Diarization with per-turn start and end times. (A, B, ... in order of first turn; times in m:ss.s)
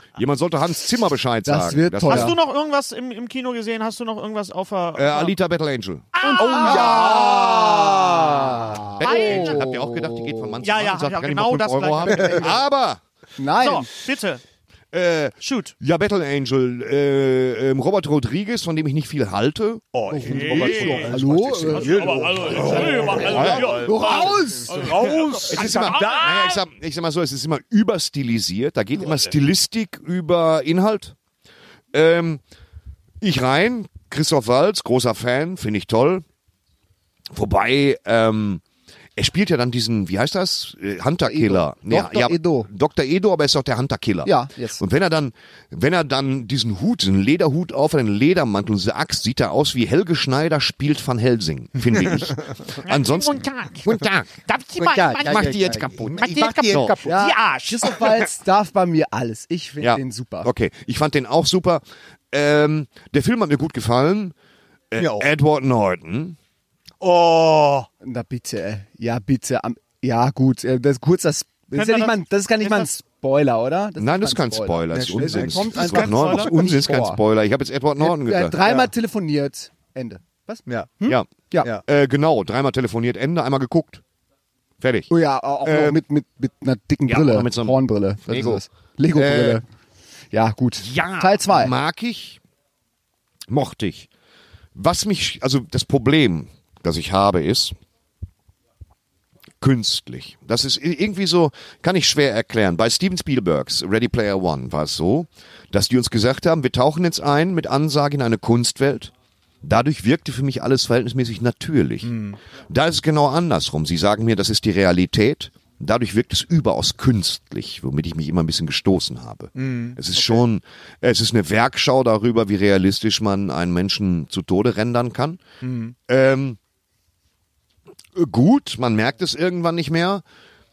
0:00.2-0:02.4 A
0:01.4-0:02.4 B
0:02.0-0:05.3 C
0:05.0-0:06.2 A
0:06.2-0:07.3 C
0:06.2-0:08.8 D
0:06.3-0:10.6 B
0:09.0-0:13.0 A
0:09.0-0:09.6 C
0:10.6-0:12.6 C
0:12.2-0:12.4 D
0:12.2-0:12.5 B
0:13.4-0:13.9 B
0:13.6-0:14.4 C
0:14.9-0:19.9 A
0:15.4-0:15.7 C
0:19.9-0:26.6 D
0:20.1-0:25.0 B
0:20.2-0:26.5 C
0:21.1-0:21.7 A
0:23.0-0:24.2 A
0:25.4-0:31.1 A
0:31.9-0:32.4 A
0:33.2-0:36.2 A
0:37.3-0:38.6 A
0:39.2-0:54.3 A
0:41.3-0:42.7 B
0:44.2-0:44.8 B
0:52.0-0:52.3 D
0:52.8-0:58.2 C
0:54.8-0:57.2 D
0:55.2-0:57.0 A
0:57.0-1:00.5 B
0:59.8-1:04.3 A
1:04.9-1:06.4 A
1:05.0-1:05.3 D
1:07.0-1:07.9 D
1:08.0-1:17.2 B
1:11.7-1:12.9 C
1:14.0-1:18.6 A
1:14.9-1:16.0 D
1:15.7-1:16.5 C
1:18.0-1:21.7 B
1:18.6-1:18.9 D
1:20.7-1:21.0 D
1:21.1-1:24.0 A
1:24.8-1:25.1 A
1:25.1-1:29.6 B
1:25.6-1:26.0 A
1:27.0-1:29.6 A
1:30.3-1:31.7 B
1:30.8-1:32.4 A
1:33.5-1:34.1 A
1:34.7-1:37.8 A
1:39.6-1:52.1 A
1:52.0-1:52.4 D
1:52.7-2:05.4 A
1:59.6-2:00.4 D
2:05.6-2:05.9 D
2:06.1-2:06.6 A
2:08.1-2:10.2 A